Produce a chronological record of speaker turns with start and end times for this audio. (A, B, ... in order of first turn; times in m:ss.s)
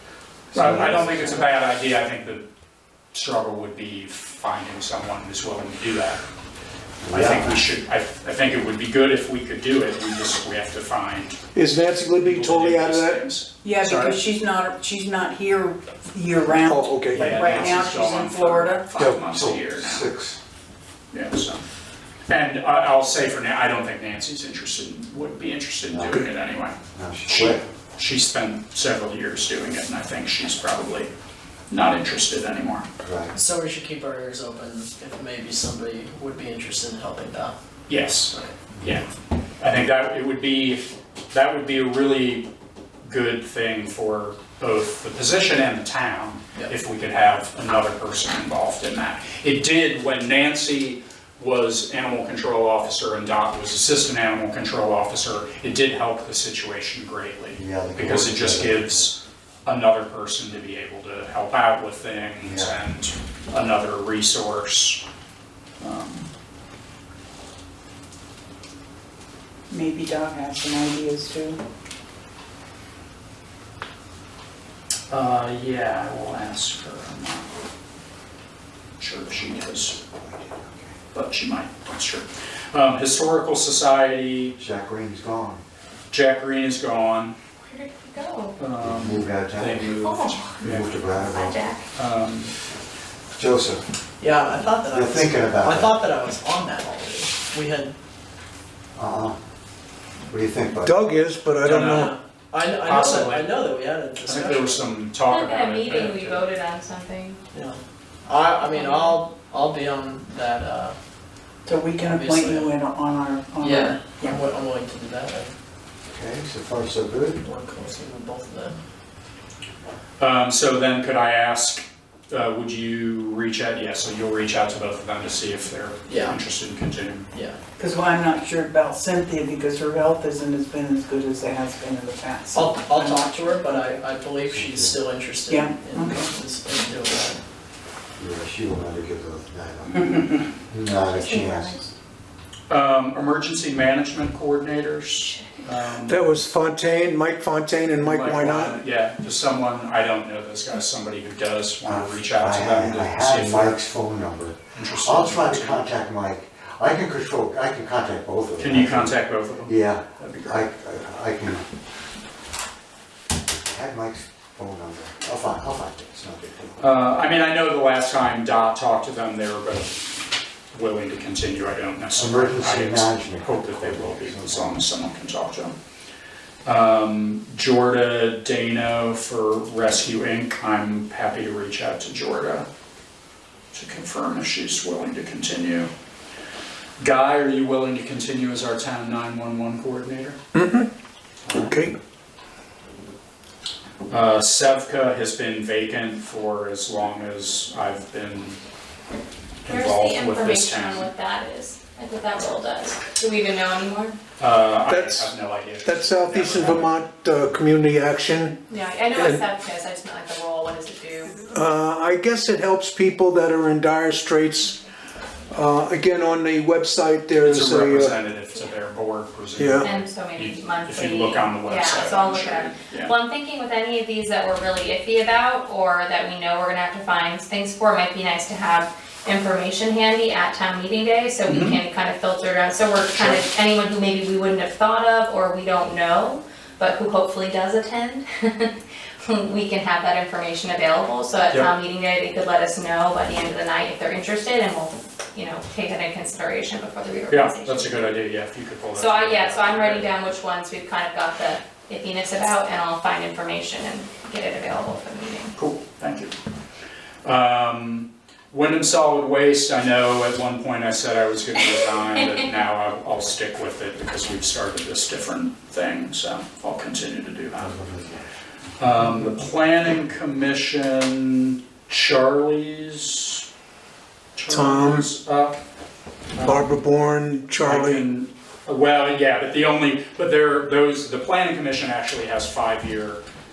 0:00.5-0:01.5 A
0:00.5-0:02.4 B
0:03.1-0:06.2 B
0:07.0-0:07.6 A
0:07.1-0:11.4 B
0:11.5-0:13.3 C
0:12.1-0:14.1 B
0:13.6-0:18.9 D
0:16.6-0:17.4 C
0:17.1-0:20.1 B
0:19.3-0:20.4 A
0:21.1-0:21.6 B
0:22.3-0:31.1 B
0:25.9-0:26.2 A
0:27.0-0:27.6 A
0:31.7-0:32.9 B
0:33.0-0:33.3 A
0:33.3-0:37.5 E
0:37.9-0:39.1 B
0:39.6-0:42.5 B
0:43.0-1:05.0 B
0:57.6-0:59.1 A
1:02.4-1:02.8 A
1:05.8-1:06.3 B
1:09.7-1:11.6 D
1:15.1-1:17.5 B
1:19.0-1:20.0 B
1:19.9-1:21.0 A
1:21.1-1:24.6 B
1:24.6-1:25.6 A
1:26.1-1:27.4 B
1:27.6-1:28.6 F
1:28.6-1:31.0 B
1:28.8-1:30.0 A
1:30.0-1:30.5 F
1:30.6-1:31.6 A
1:31.2-1:31.9 F
1:32.0-1:32.5 B
1:33.4-1:33.8 A
1:34.2-1:37.9 E
1:34.9-1:36.0 A
1:39.0-1:39.4 A
1:40.3-1:41.0 A
1:40.8-1:42.1 C
1:41.6-1:42.1 B
1:41.9-1:44.8 E
1:42.8-1:43.6 B
1:44.2-1:46.4 B
1:45.3-1:47.4 F
1:47.5-1:51.0 E
1:48.6-1:49.2 F
1:51.7-1:54.4 D
1:51.9-1:52.7 E
1:53.6-1:55.5 E
1:56.1-1:57.4 A
1:57.4-1:58.8 E
2:00.2-2:07.3 B
2:06.1-2:06.4 E
2:07.3-2:07.6 E
2:07.8-2:14.0 D
2:12.5-2:17.4 E
2:14.5-2:15.0 A
2:15.5-2:16.3 D
2:18.2-2:20.1 A
2:20.6-2:21.8 A
2:21.1-2:21.9 F
2:22.7-2:26.2 B
2:26.1-2:28.8 C
2:28.0-2:33.8 B
2:31.8-2:39.2 A
2:34.7-2:35.8 B
2:38.6-2:40.7 B
2:39.7-2:41.7 A
2:43.6-2:46.8 A
2:46.8-2:50.0 B
2:50.7-2:55.7 B
2:52.1-2:54.7 A
2:56.6-3:02.7 B
3:03.7-3:05.9 B
3:07.0-3:10.4 B
3:10.5-3:10.9 C
3:11.5-3:12.0 C
3:14.1-3:18.6 B
3:19.6-3:21.1 B
3:19.7-3:24.2 F
3:24.4-3:27.0 B
3:24.9-3:25.3 C
3:25.8-3:28.6 C
3:28.7-3:31.4 F
3:29.1-3:29.4 C
3:31.4-3:34.8 C
3:35.5-3:38.2 C
3:37.4-3:43.1 B
3:39.6-3:39.9 C
3:39.8-4:08.1 F
3:51.5-3:51.8 B
3:53.1-3:53.4 B
4:07.3-4:10.2 B
4:09.0-4:15.5 F
4:15.6-4:16.3 B
4:17.2-4:27.8 B
4:27.6-4:28.2 A
4:28.8-4:33.5 B
4:34.4-4:35.6 B
4:34.5-4:35.1 C
4:36.3-4:36.7 B
4:36.4-4:38.0 C
4:37.6-4:43.2 B